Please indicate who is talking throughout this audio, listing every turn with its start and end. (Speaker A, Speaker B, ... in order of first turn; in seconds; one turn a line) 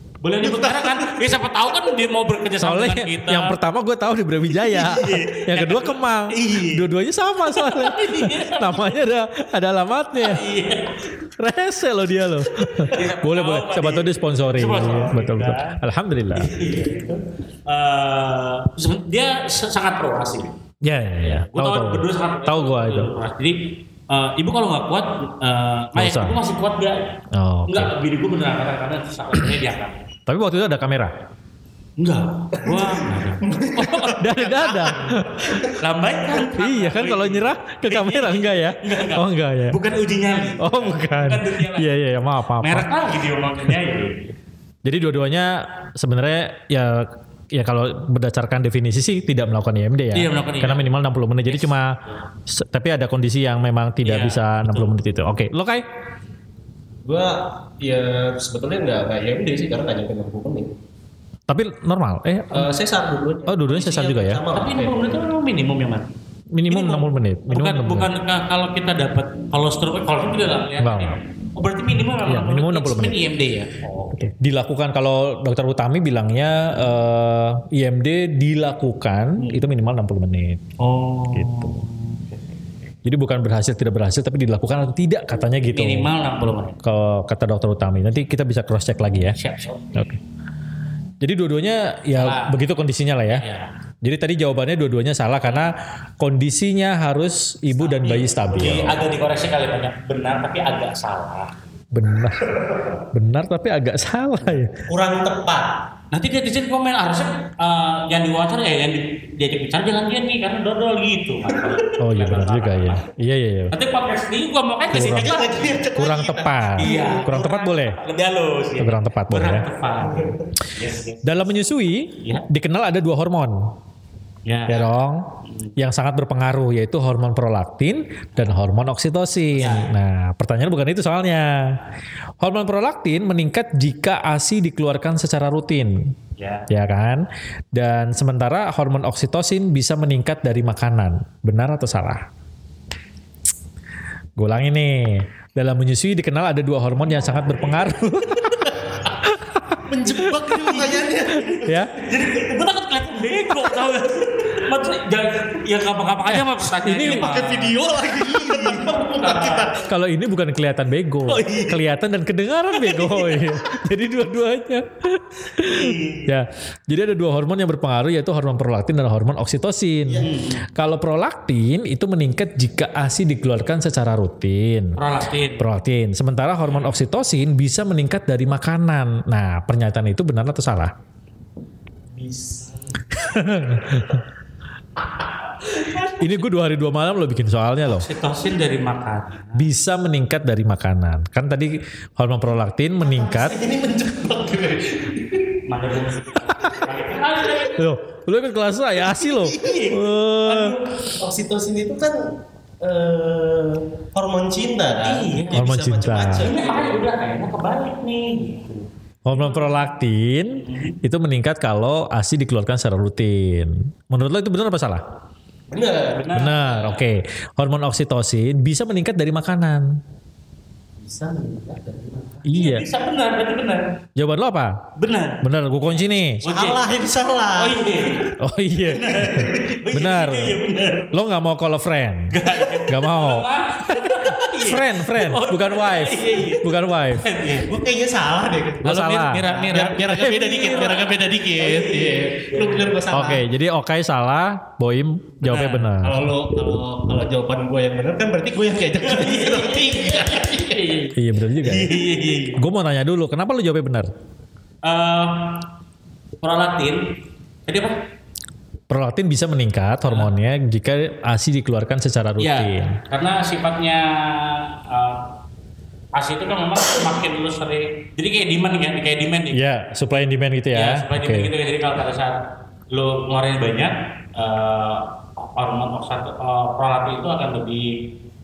Speaker A: 0.2-3.6
Speaker B: 0.4-1.1
Speaker C: 2.6-10.4
Speaker A: 4.5-6.9
Speaker A: 7.4-9.0
Speaker A: 10.2-11.1
Speaker C: 11.4-16.5
Speaker A: 12.6-15.8
Speaker A: 16.3-20.5
Speaker C: 20.8-23.1
Speaker A: 21.2-30.0
Speaker C: 25.9-26.4
Speaker C: 27.3-27.9
Speaker C: 30.3-31.1
Speaker A: 32.0-34.8
Speaker B: 32.6-35.6
Speaker C: 34.1-35.7
Speaker A: 35.6-41.9
Speaker C: 36.5-39.8
Speaker C: 40.6-42.9
Speaker A: 42.6-44.3
Speaker C: 44.8-55.8
Speaker A: 50.1-50.9
Speaker A: 51.5-52.2
Speaker A: 54.0-54.9
Speaker B: 57.0-60.7
Speaker C: 61.5-62.7
Speaker B: 62.5-65.2
Speaker C: 63.5-64.4
Speaker A: 64.5-66.1
Speaker C: 66.5-68.1
Speaker A: 66.7-74.3
Speaker C: 70.8-71.2
Speaker C: 72.2-73.2
Speaker C: 74.1-80.6
Speaker A: 79.4-79.6
Speaker A: 80.8-82.5
Speaker C: 81.3-81.8
Speaker C: 83.0-86.1
Speaker A: 85.7-86.8
Speaker C: 86.8-89.4
Speaker A: 89.3-90.1
Speaker C: 91.2-93.4
Speaker A: 92.1-92.5
Speaker A: 93.3-93.7
Speaker C: 94.0-99.0
Speaker A: 97.8-101.5
Speaker C: 101.9-102.5
Speaker C: 103.1-104.8
Speaker B: 104.9-105.7
Speaker A: 106.1-113.0
Speaker C: 112.0-113.7
Speaker A: 113.7-115.8
Speaker B: 114.9-117.5
Speaker C: 114.9-115.3
Speaker C: 115.9-118.0
Speaker A: 116.8-121.5
Speaker C: 118.8-119.7
Speaker B: 120.0-120.3
Speaker C: 121.2-123.7
Speaker A: 122.2-122.4
Speaker A: 124.5-124.9
Speaker C: 124.7-131.8
Speaker A: 125.5-125.7
Speaker A: 129.6-129.9
Speaker C: 132.4-136.2
Speaker A: 136.4-136.7
Speaker C: 136.7-142.3
Speaker C: 144.4-150.8
Speaker B: 149.8-151.9
Speaker C: 151.5-151.9
Speaker A: 152.0-159.8
Speaker C: 156.3-157.2
Speaker B: 157.0-159.9
Speaker C: 159.8-175.0
Speaker A: 161.3-161.8
Speaker A: 165.6-166.3
Speaker B: 170.1-170.3
Speaker A: 170.2-170.6
Speaker A: 175.0-175.6
Speaker C: 175.6-180.9
Speaker B: 182.2-183.0
Speaker C: 183.1-184.2
Speaker B: 185.7-186.1
Speaker C: 186.2-188.1
Speaker A: 187.8-189.7
Speaker C: 189.5-193.6
Speaker B: 193.0-195.6
Speaker A: 195.7-197.8
Speaker C: 197.7-200.8
Speaker A: 199.1-200.0
Speaker B: 199.4-199.9
Speaker A: 200.5-200.8
Speaker B: 201.0-202.2
Speaker B: 202.8-207.1
Speaker A: 205.0-205.7
Speaker C: 205.5-206.5
Speaker A: 206.3-209.8
Speaker C: 209.2-215.0
Speaker A: 210.5-211.0
Speaker B: 215.7-216.3
Speaker A: 216.1-217.0
Speaker C: 216.3-220.0
Speaker B: 221.0-222.4
Speaker C: 222.4-222.8
Speaker A: 222.5-223.9
Speaker C: 224.1-224.8
Speaker A: 224.9-225.4
Speaker C: 225.4-226.4
Speaker A: 226.4-226.9
Speaker B: 226.4-228.2
Speaker A: 227.5-228.3
Speaker C: 228.4-230.6
Speaker A: 228.9-231.2
Speaker C: 231.1-237.2
Speaker A: 232.3-237.7
Speaker B: 237.6-243.4
Speaker C: 238.8-239.4
Speaker A: 238.8-243.0
Speaker C: 243.1-246.2
Speaker A: 245.4-245.9
Speaker B: 246.0-251.0
Speaker A: 249.0-252.6
Speaker C: 251.1-251.9
Speaker C: 252.6-254.1
Speaker A: 254.8-255.7
Speaker A: 256.4-257.1
Speaker A: 257.6-258.0
Speaker C: 258.9-263.0
Speaker A: 262.4-265.2
Speaker A: 266.1-269.6
Speaker C: 269.5-271.5
Speaker A: 270.7-272.4
Speaker A: 272.9-278.0